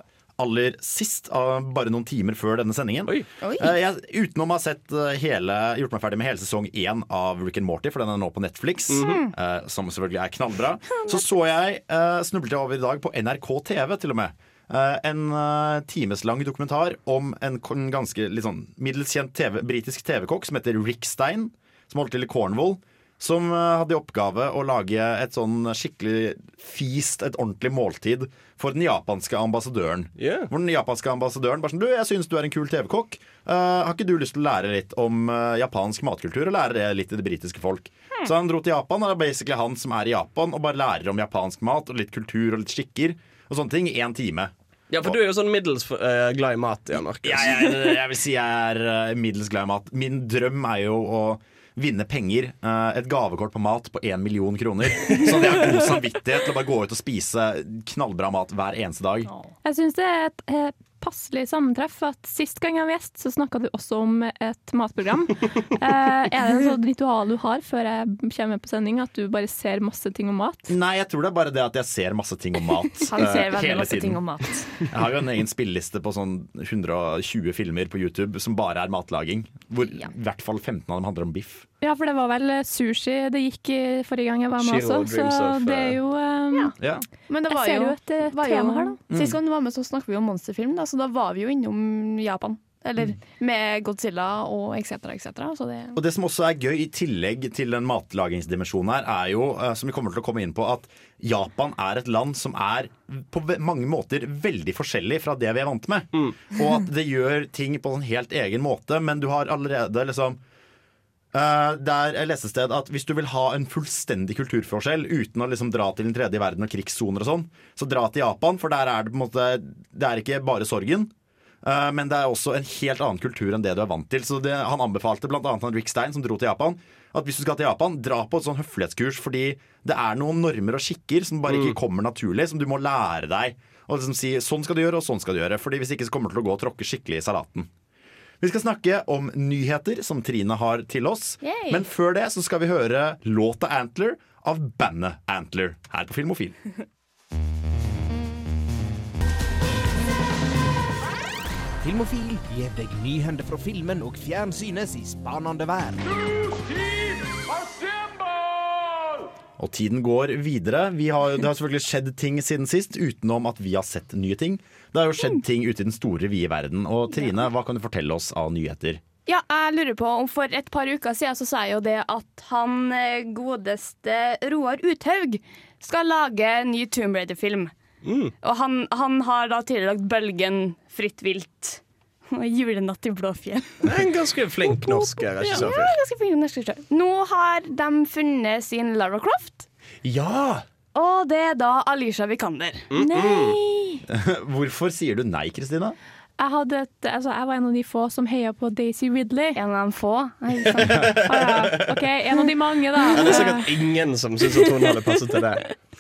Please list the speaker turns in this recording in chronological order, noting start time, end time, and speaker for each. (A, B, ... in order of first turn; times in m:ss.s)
0:00.4-0:45.2 A
0:03.4-0:03.7 B
0:08.9-0:09.2 C
0:09.0-0:09.3 B
0:11.0-0:11.3 B
0:30.2-0:30.5 C
0:44.9-0:47.7 C
0:47.2-0:59.3 A
0:59.6-1:10.7 D
1:10.7-1:14.2 A
1:13.1-1:14.8 B
1:14.8-1:21.6 A
1:21.8-1:26.7 D
1:24.6-1:26.0 C
1:26.8-1:27.0 A
1:27.3-1:36.0 B
1:27.5-1:29.0 D
1:29.1-1:29.4 A
1:36.0-1:50.4 A
1:46.1-1:46.4 C
1:51.3-2:01.1 A
2:01.6-2:17.7 A
2:11.5-2:11.8 C
2:18.4-2:26.6 A
2:21.4-2:21.8 B
2:31.8-2:36.0 E
2:39.6-2:49.0 A
2:49.3-2:57.7 B
2:58.0-2:58.3 C
2:58.4-3:03.8 B
3:03.8-3:06.0 C
3:04.6-3:09.7 B
3:05.4-3:05.7 A
3:10.0-3:10.6 C
3:11.0-3:14.0 B
3:12.9-3:13.6 C
3:14.1-3:16.0 A
3:16.4-3:19.6 D
3:19.6-3:21.2 B
3:21.3-3:23.7 D
3:23.1-3:25.7 C